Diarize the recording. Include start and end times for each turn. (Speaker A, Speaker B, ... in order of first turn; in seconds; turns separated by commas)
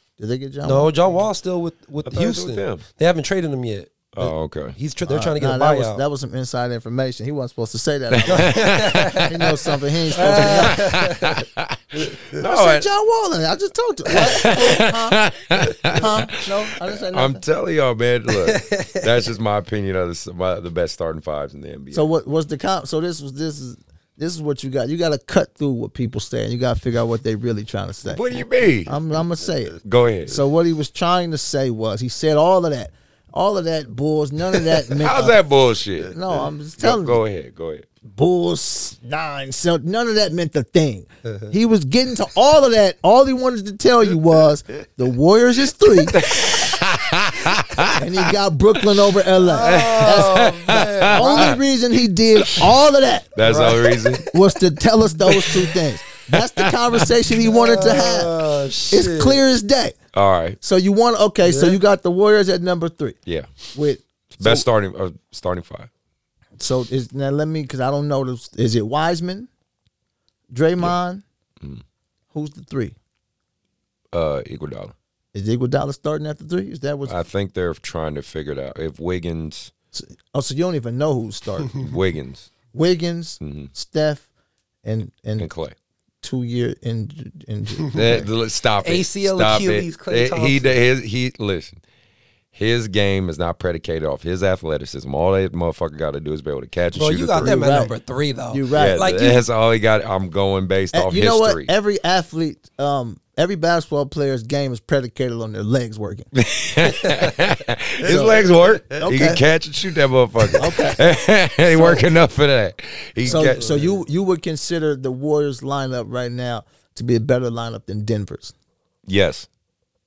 Speaker A: 0.2-0.9, Speaker B: 0.6-6.0, Speaker C: 2.0-2.8, Speaker C: 4.1-4.8, Speaker A: 5.0-10.8, Speaker C: 8.1-9.5, Speaker B: 8.3-9.3, Speaker B: 10.1-11.4, Speaker C: 10.2-12.9, Speaker B: 12.0-12.3, Speaker A: 12.4-15.2, Speaker C: 14.1-22.1, Speaker A: 15.9-17.4, Speaker B: 18.3-19.2, Speaker A: 21.9-35.4, Speaker C: 28.0-29.0, Speaker C: 29.8-30.4, Speaker C: 34.9-36.1, Speaker A: 36.1-37.2, Speaker C: 36.8-37.9, Speaker A: 38.0-46.2, Speaker B: 41.2-41.5, Speaker C: 46.0-48.3, Speaker A: 47.9-50.5, Speaker B: 49.4-51.6, Speaker C: 49.6-51.6, Speaker A: 51.1-53.4, Speaker C: 52.4-52.7, Speaker C: 53.3-54.2, Speaker B: 53.4-54.4, Speaker A: 54.3-58.3, Speaker C: 56.3-57.0, Speaker B: 57.4-59.4, Speaker A: 58.9-60.0, Speaker C: 60.1-60.6, Speaker A: 60.6-63.2, Speaker B: 61.4-61.8, Speaker C: 63.2-63.5, Speaker A: 63.7-64.6, Speaker C: 64.3-65.9, Speaker A: 66.6-69.5, Speaker A: 70.5-71.2, Speaker A: 72.3-73.0, Speaker C: 74.1-74.9, Speaker A: 75.3-77.2, Speaker C: 77.0-79.7, Speaker A: 79.9-81.8, Speaker C: 81.7-82.5, Speaker A: 82.7-84.3, Speaker C: 83.4-83.7, Speaker A: 84.8-85.5, Speaker C: 85.4-85.8, Speaker A: 86.2-88.3, Speaker C: 87.9-91.8, Speaker B: 88.8-90.8, Speaker C: 92.5-97.6, Speaker B: 96.9-99.4, Speaker A: 97.4-97.9, Speaker A: 98.5-99.1, Speaker C: 98.7-101.7, Speaker A: 100.9-106.3, Speaker C: 106.3-113.7, Speaker B: 106.8-107.3, Speaker A: 108.0-108.4, Speaker B: 108.0-109.0, Speaker A: 109.0-109.4, Speaker A: 110.6-111.0, Speaker A: 111.7-112.0, Speaker B: 113.2-114.0, Speaker A: 113.2-118.5, Speaker C: 119.0-119.5